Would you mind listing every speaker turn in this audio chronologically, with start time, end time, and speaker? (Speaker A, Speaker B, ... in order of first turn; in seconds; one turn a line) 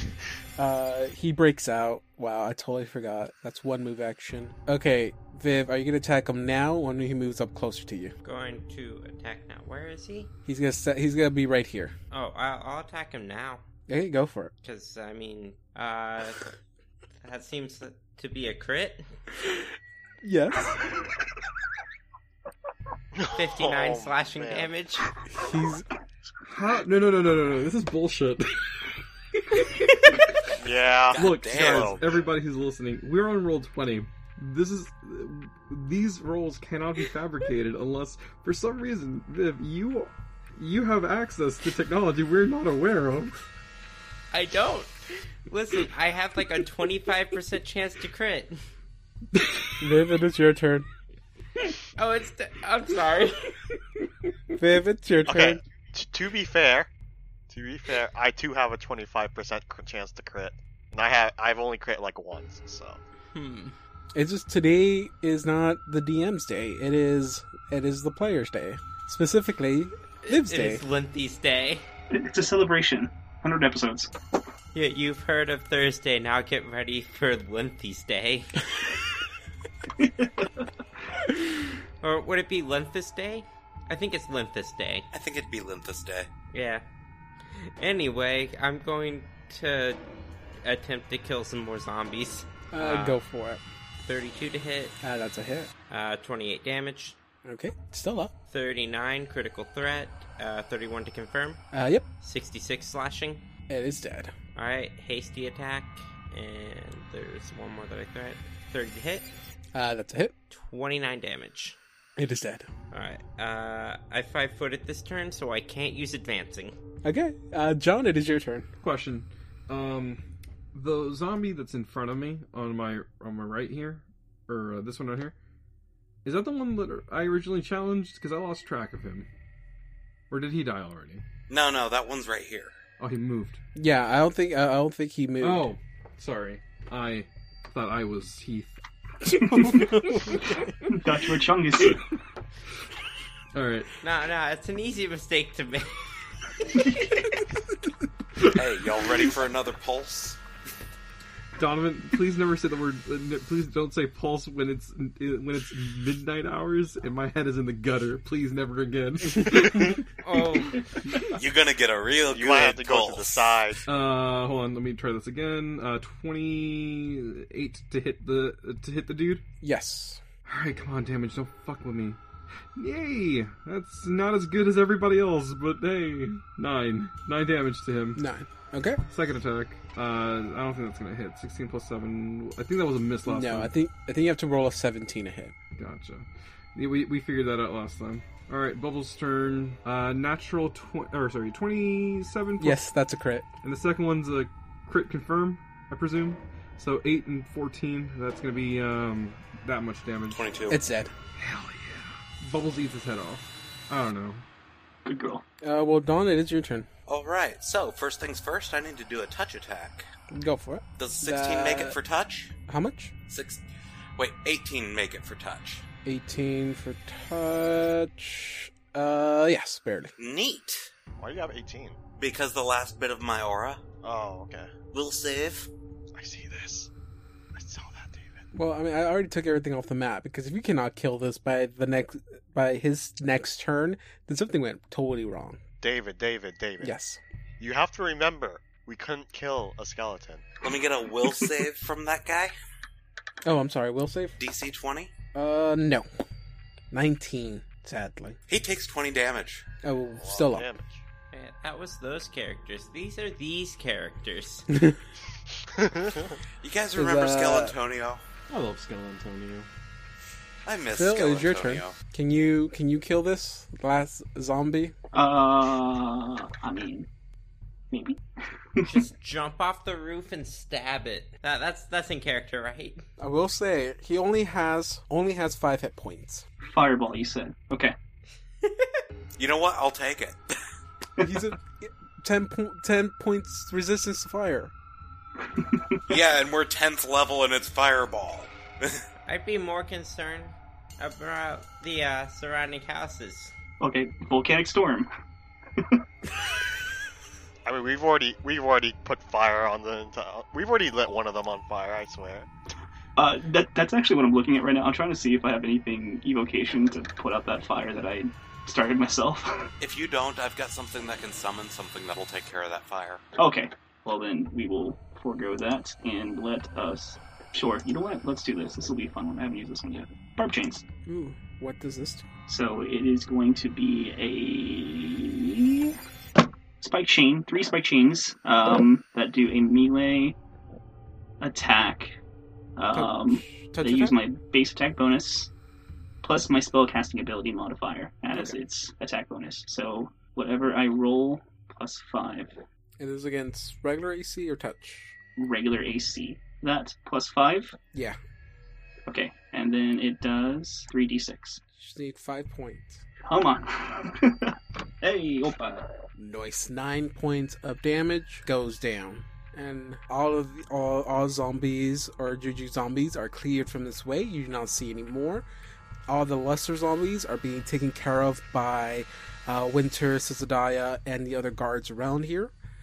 Speaker A: 0.6-8.1
Speaker B: 8.2-10.3
Speaker A: 10.4-11.9
Speaker B: 12.1-13.6
Speaker A: 13.9-14.5
Speaker B: 14.6-16.6
Speaker B: 17.2-19.1
Speaker A: 20.2-20.8
Speaker C: 23.1-24.7
Speaker B: 23.3-25.1
Speaker A: 25.3-25.9
Speaker D: 26.4-28.8
Speaker D: 29.4-30.4
Speaker C: 30.6-32.2
Speaker E: 31.1-32.0
Speaker D: 31.2-43.4
Speaker B: 44.3-48.6
Speaker D: 49.3-49.6
Speaker A: 49.8-50.9
Speaker B: 51.7-53.5
Speaker A: 54.5-55.6
Speaker C: 55.3-56.9
Speaker C: 57.5-63.0
Speaker B: 63.3-63.7
Speaker A: 64.1-70.8
Speaker B: 70.2-71.9
Speaker F: 72.1-74.1
Speaker B: 74.7-78.6
Speaker F: 80.0-80.7
Speaker B: 82.0-85.1
Speaker E: 85.1-86.3
Speaker B: 86.5-86.8
Speaker B: 87.5-90.0
Speaker B: 90.6-93.2
Speaker A: 92.7-93.6
Speaker B: 94.0-95.0
Speaker A: 95.0-95.7
Speaker B: 95.9-97.2
Speaker A: 97.4-98.3
Speaker B: 98.5-101.6
Speaker A: 101.7-102.1
Speaker B: 102.2-103.4
Speaker A: 103.7-104.3
Speaker B: 104.5-109.3
Speaker A: 109.7-110.3
Speaker B: 110.5-111.8
Speaker A: 112.2-112.7
Speaker B: 112.9-116.8
Speaker A: 117.0-118.7
Speaker D: 118.8-120.2
Speaker D: 120.7-125.3
Speaker D: 126.2-129.3
Speaker D: 130.3-131.2
Speaker E: 131.5-132.8
Speaker D: 133.0-133.6
Speaker A: 133.7-135.7
Speaker D: 135.4-138.8
Speaker F: 139.4-139.8
Speaker A: 139.5-140.6
Speaker D: 139.6-140.4
Speaker F: 140.6-142.0
Speaker D: 143.5-143.9
Speaker B: 144.0-145.9
Speaker E: 148.4-150.4
Speaker D: 151.6-160.0
Speaker B: 160.2-160.8
Speaker E: 161.3-163.8
Speaker C: 162.3-163.8
Speaker D: 163.9-169.4
Speaker A: 169.6-170.2
Speaker D: 170.4-172.2
Speaker D: 172.8-178.2
Speaker A: 178.1-179.0
Speaker D: 179.1-183.7
Speaker A: 183.3-185.6
Speaker D: 185.8-192.8
Speaker A: 192.6-193.5
Speaker D: 193.6-200.4
Speaker E: 200.3-200.8
Speaker A: 200.7-201.1
Speaker D: 201.3-204.4
Speaker F: 205.1-205.4
Speaker A: 205.6-206.9
Speaker E: 207.1-210.1
Speaker A: 210.3-212.0
Speaker E: 211.0-212.5
Speaker A: 212.7-213.1
Speaker E: 213.3-213.6
Speaker E: 214.2-215.8
Speaker A: 216.1-220.1
Speaker E: 220.2-220.9
Speaker C: 221.2-222.0
Speaker E: 222.2-223.8
Speaker C: 224.0-224.7
Speaker E: 224.9-225.7
Speaker C: 226.1-226.9
Speaker C: 227.5-228.5
Speaker A: 228.5-235.6
Speaker C: 235.8-236.9
Speaker A: 236.8-237.2
Speaker C: 237.6-240.4
Speaker E: 240.6-242.5
Speaker A: 243.4-244.4
Speaker E: 244.4-245.1
Speaker A: 245.3-246.1
Speaker A: 246.9-248.4
Speaker E: 248.5-249.6
Speaker A: 249.8-250.7
Speaker C: 250.2-251.0
Speaker B: 251.3-254.7
Speaker A: 254.7-255.0
Speaker C: 255.6-256.4
Speaker E: 256.6-258.2
Speaker A: 256.9-257.8
Speaker A: 258.5-259.7
Speaker E: 260.6-261.9
Speaker A: 260.9-264.9
Speaker F: 265.1-267.1
Speaker F: 267.9-268.2
Speaker B: 268.8-273.1
Speaker A: 273.2-276.4
Speaker F: 276.6-277.9
Speaker E: 279.4-280.6
Speaker A: 281.2-284.7
Speaker F: 285.5-285.9
Speaker E: 286.1-289.1
Speaker B: 289.3-293.5
Speaker F: 293.8-295.1
Speaker F: 295.8-296.1
Speaker C: 297.6-302.5
Speaker F: 303.1-309.7
Speaker E: 309.8-313.2
Speaker F: 313.4-320.8
Speaker A: 321.1-322.3
Speaker F: 322.5-326.0
Speaker F: 326.8-330.4
Speaker F: 331.4-332.1
Speaker F: 332.8-335.5
Speaker A: 332.9-334.2
Speaker F: 336.2-342.6
Speaker A: 343.0-345.2
Speaker F: 345.4-347.7
Speaker F: 349.1-351.6
Speaker A: 351.8-353.0
Speaker F: 353.3-356.0
Speaker A: 356.2-365.4
Speaker A: 366.1-372.5